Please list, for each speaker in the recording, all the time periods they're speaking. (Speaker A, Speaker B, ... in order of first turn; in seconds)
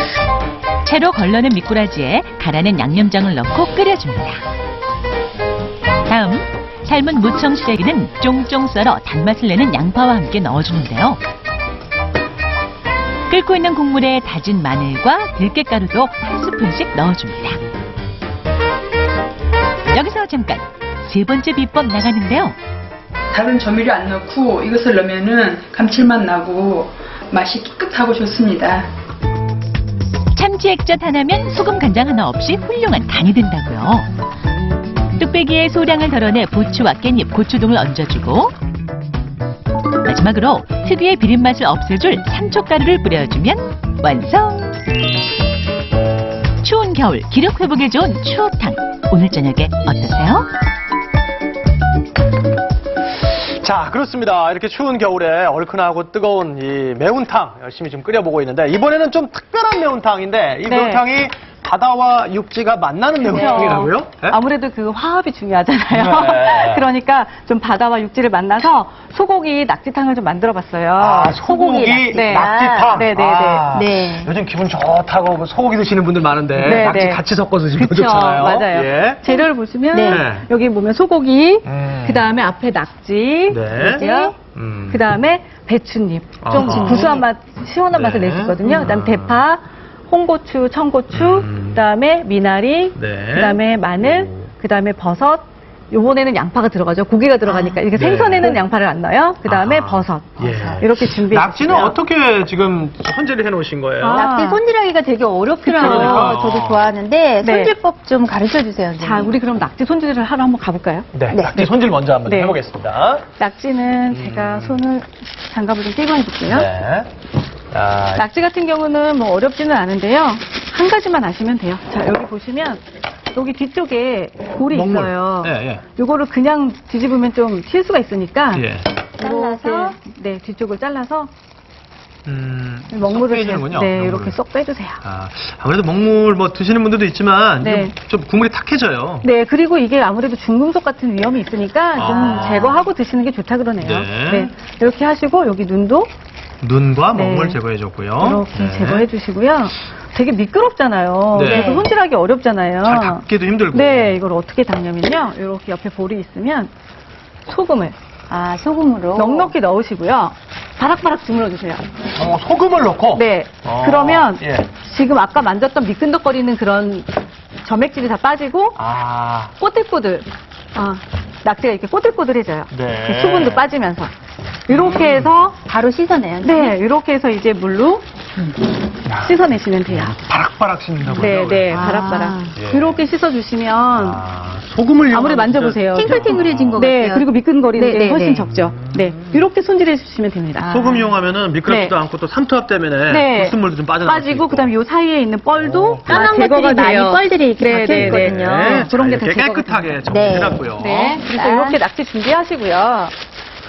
Speaker A: 0.8-4.4, 6.1-11.2, 13.3-17.6, 19.9-22.6, 30.3-34.0, 35.2-38.5, 40.0-44.8, 46.6-50.5
Speaker B: 23.3-28.9
Speaker C: 53.3-64.4, 65.9-66.9, 71.0-79.2, 80.0-80.5, 81.6-82.3, 83.5-85.0, 86.4-87.2, 87.9-89.5, 91.1-91.9, 92.9-94.5, 97.9-98.6, 99.4-104.2, 105.7-106.9, 111.1-113.2, 114.1-114.8, 116.5-117.1, 117.7-118.3, 124.7-125.8, 128.5-128.9, 132.2-134.4, 135.0-139.3, 141.9-142.9, 143.8-144.5, 146.6-149.1, 151.3-151.7, 152.8-154.2, 162.1-164.7, 168.8-169.5, 172.7-173.7, 174.7-175.4, 179.1-183.0, 183.9-186.8, 188.4-189.5, 190.6-194.7, 195.5-196.3, 197.8-201.2
Speaker D: 60.6-61.0, 63.2-73.8, 76.6-102.0, 104.0-104.6, 105.6-106.4, 107.4-107.7, 109.0-112.6, 113.3-116.7, 118.1-128.7, 129.2-131.3, 132.9-135.0, 137.6-138.0, 139.2-146.1, 147.1-147.6, 148.1-156.7, 157.4-157.9, 159.1-161.8, 163.1-167.1, 167.6-168.8, 169.5-174.1, 174.7-175.6, 176.4-178.0, 179.2-180.2, 181.1-184.2, 185.1-191.0, 191.6-191.9, 193.1-200.1, 200.6-203.1
Speaker E: 63.2-63.9, 71.5-73.0, 73.7-74.3, 79.2-80.2, 83.8-84.3, 86.5-87.3, 97.5-97.8, 100.4-100.8, 104.0-109.3, 111.3-111.7, 129.2-130.0, 151.4-151.9, 158.3-159.5, 175.6-176.8, 181.7-182.6, 185.9-188.5, 196.1-198.9, 200.1-201.8